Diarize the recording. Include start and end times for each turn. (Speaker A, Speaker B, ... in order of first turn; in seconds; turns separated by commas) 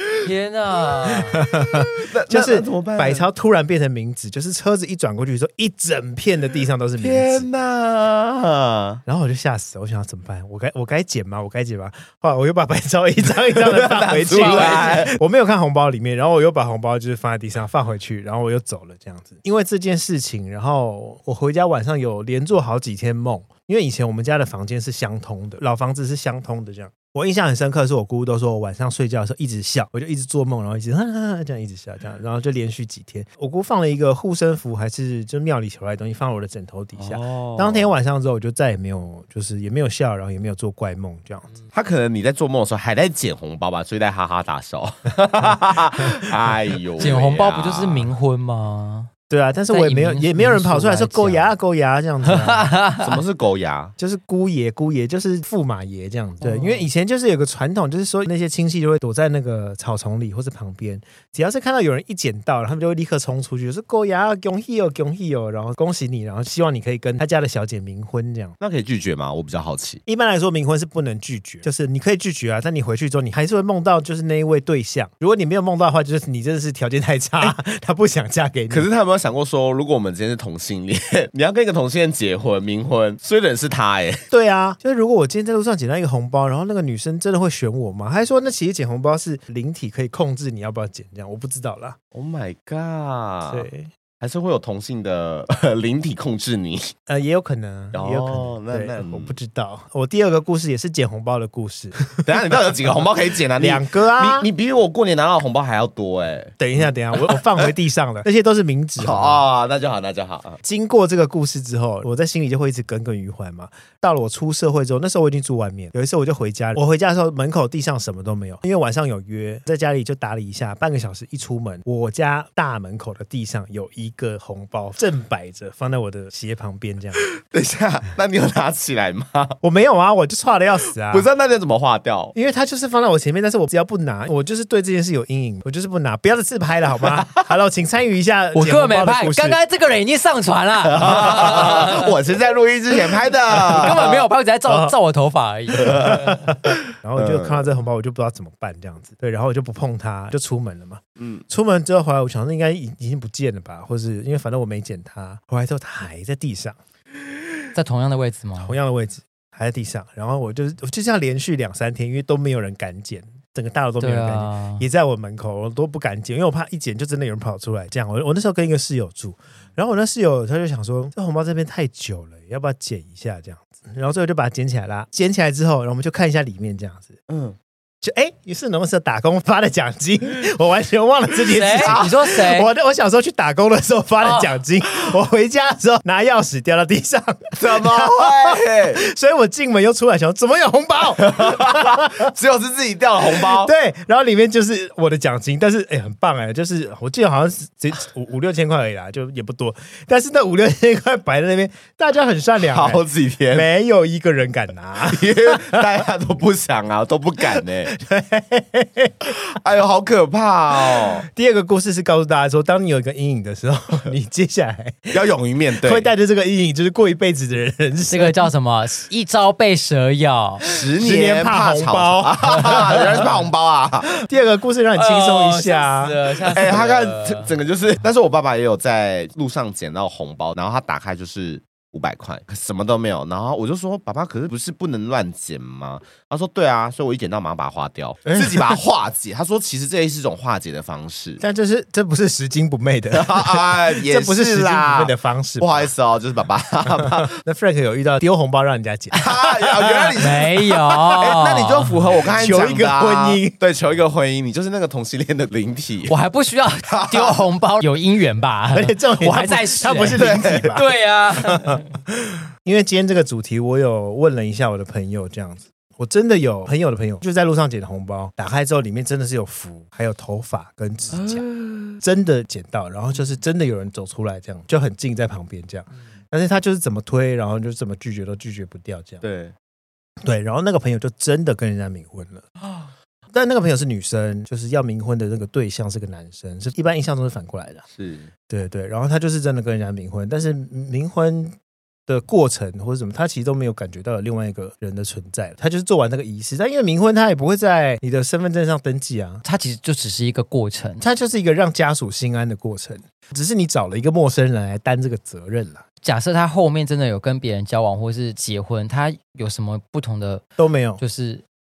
Speaker A: 0.2-1.4, Speaker B: 1.2-7.5, Speaker C: 2.0-3.3, Speaker C: 7.0-9.0, Speaker B: 9.1-41.5, Speaker C: 13.3-15.2, Speaker A: 14.3-15.0, Speaker C: 37.0-37.9, Speaker C: 41.7-48.1, Speaker A: 47.0-49.1, Speaker B: 49.3-52.7, Speaker A: 49.7-51.5, Speaker A: 52.2-53.2, Speaker C: 53.0-53.9, Speaker B: 54.0-68.6, Speaker A: 56.4-56.9, Speaker C: 68.6-70.0, Speaker B: 70.1-78.9, Speaker C: 78.7-84.2, Speaker B: 84.3-92.0, Speaker C: 92.1-93.7, Speaker B: 93.5-93.9, Speaker C: 94.2-96.9, Speaker B: 97.1-102.2, Speaker C: 97.9-99.3, Speaker C: 102.2-106.6, Speaker B: 103.6-104.5, Speaker B: 106.6-109.5, Speaker C: 107.2-107.7, Speaker C: 109.0-110.6, Speaker B: 110.6-127.2, Speaker C: 127.4-129.6, Speaker B: 129.6-131.3, Speaker C: 131.0-132.3, Speaker B: 132.3-139.6, Speaker C: 137.1-137.5, Speaker A: 138.6-142.2, Speaker C: 140.9-144.3, Speaker A: 143.6-146.5, Speaker B: 144.7-144.9, Speaker C: 145.8-146.1, Speaker B: 145.9-156.8, Speaker C: 147.2-147.7, Speaker C: 151.2-151.4, Speaker A: 157.7-158.8, Speaker B: 158.6-177.2, Speaker A: 164.0-164.8, Speaker C: 177.3-177.6, Speaker B: 178.0-192.3, Speaker A: 181.5-182.7, Speaker C: 181.8-182.1, Speaker C: 187.6-189.0, Speaker C: 191.2-193.7, Speaker B: 193.3-206.0, Speaker C: 202.7-203.7, Speaker C: 205.1-207.9, Speaker B: 207.6-209.3, Speaker C: 209.5-211.2, Speaker B: 211.2-215.2, Speaker C: 215.1-216.1, Speaker B: 215.8-218.5, Speaker A: 218.1-220.6, Speaker B: 220.7-223.3, Speaker C: 220.7-224.1, Speaker B: 224.2-226.6, Speaker A: 225.0-227.5, Speaker C: 226.5-241.4, Speaker B: 238.2-238.8, Speaker B: 241.4-245.9, Speaker C: 243.1-247.3, Speaker B: 247.0-250.2, Speaker C: 249.1-250.5, Speaker A: 250.2-252.0, Speaker C: 251.1-256.1, Speaker B: 252.4-253.6, Speaker A: 256.1-261.9, Speaker C: 256.9-257.4, Speaker B: 258.7-260.9, Speaker C: 260.1-260.8, Speaker B: 261.4-261.8, Speaker B: 262.6-271.5, Speaker C: 271.1-272.0, Speaker B: 272.0-279.2, Speaker C: 279.2-279.5, Speaker B: 280.2-282.5, Speaker B: 283.3-287.8, Speaker C: 287.9-288.3, Speaker B: 288.5-299.4, Speaker A: 299.4-301.1, Speaker B: 301.0-305.8, Speaker A: 306.0-310.4, Speaker B: 310.6-311.0, Speaker A: 311.0-311.4